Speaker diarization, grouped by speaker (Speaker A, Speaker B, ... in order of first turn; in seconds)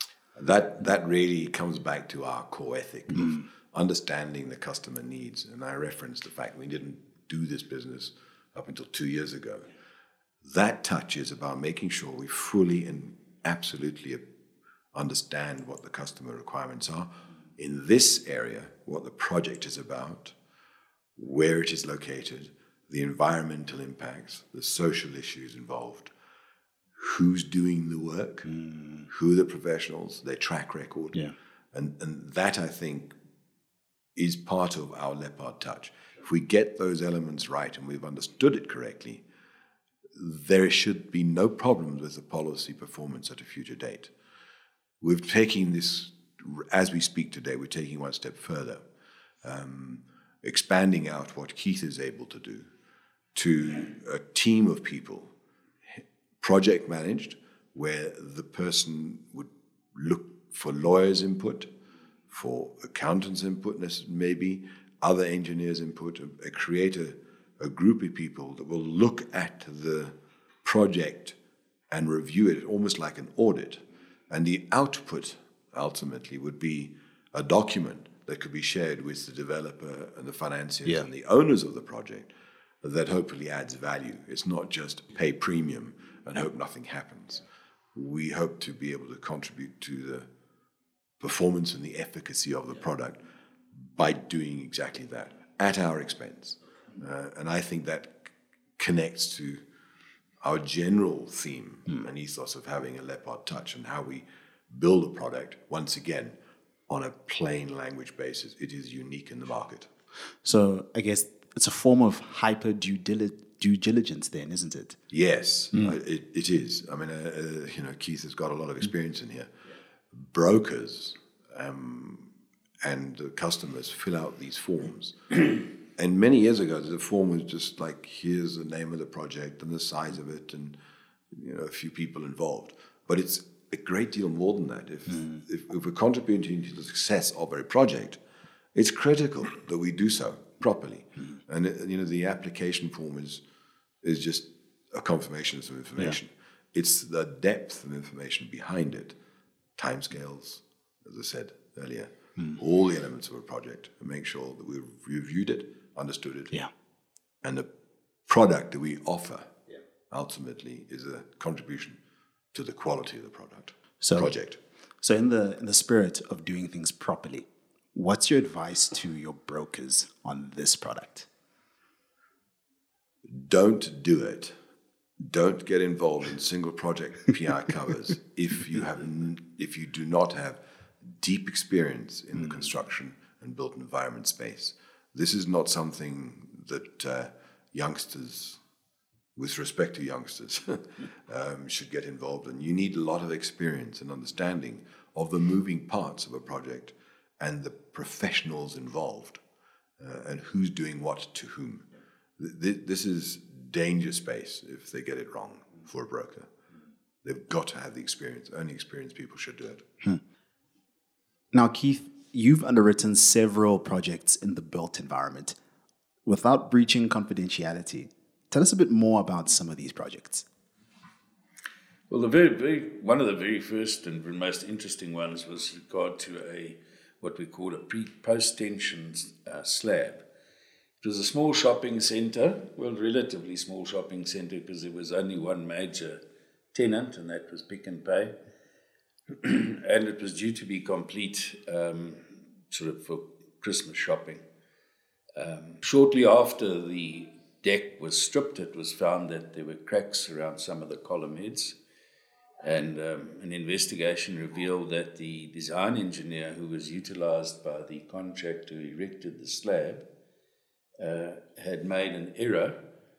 Speaker A: 0.3-9.7, 10.4-14.2, 14.9-20.3, 21.1-26.1, 27.0-28.5, 29.1-31.2, 31.7-33.1, 34.1-39.2, 40.1-44.1, 45.0-48.8, 49.4-52.7, 53.3-55.3, 56.4-61.7, 62.3-71.4, 71.9-82.3, 82.8-90.3, 91.2-93.2, 93.8-99.6, 100.4-106.4, 106.9-109.9, 115.1-119.5, 120.1-130.8, 131.3-138.2, 138.7-143.4, 144.0-149.2, 149.8-156.5, 157.4-157.7, 158.3-159.6, 160.1-162.0, 162.5-164.6, 173.3-174.5, 175.2-188.6, 189.3-199.4, 200.0-201.9, 202.4-206.5, 207.2-209.8
Speaker B: 28.4-29.1, 80.8-81.1, 110.4-115.0, 164.0-164.3, 165.0-171.3, 211.5-215.6, 216.2-220.4
Speaker C: 222.1-230.2, 231.0-236.2, 236.7-238.3, 239.4-244.4, 245.4-251.8, 252.6-260.1, 261.0-262.9